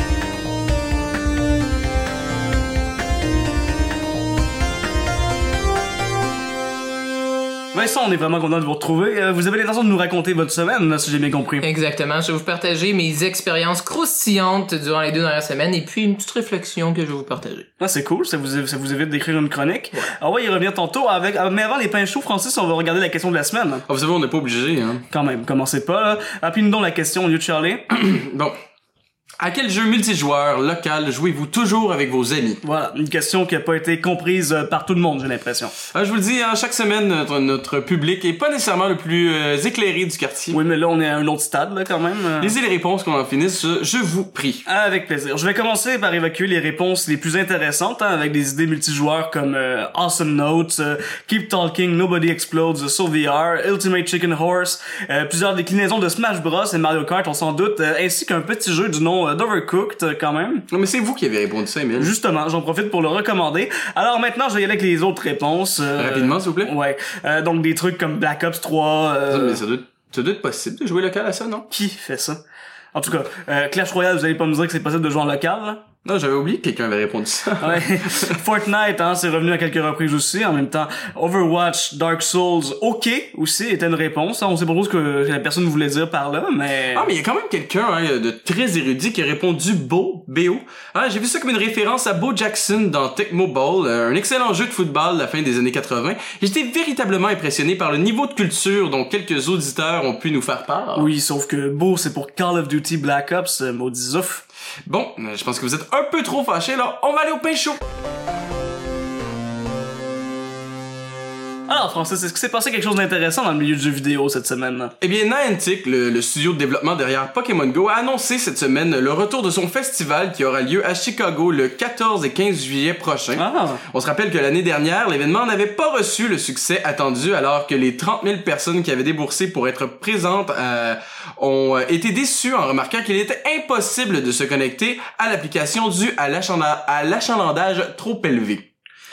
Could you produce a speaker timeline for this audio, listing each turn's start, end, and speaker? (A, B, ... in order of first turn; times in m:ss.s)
0:07.7-0:11.6 A
0:11.6-0:17.7 B
0:17.8-0:23.8 A
0:23.9-0:25.0 C
0:25.1-0:27.8 A
0:27.9-0:28.6 C
0:29.4-0:32.6 C
0:32.6-0:35.7 A
0:35.9-0:40.6 C
0:40.5-0:42.5 A
0:42.4-0:44.6 C
0:44.7-1:00.7 A
1:00.7-1:02.1 C
1:02.0-1:09.6 A
1:06.0-1:06.7 C
1:09.3-1:11.7 C
1:11.7-1:12.4 A
1:12.9-1:15.8 A
1:16.0-1:18.4 C
1:17.6-1:27.1 A
1:26.9-1:41.1 C
1:41.0-1:44.4 A
1:44.9-1:47.8 C
1:51.7-1:54.9 A
1:55.0-2:18.7 C
2:03.4-2:03.8 A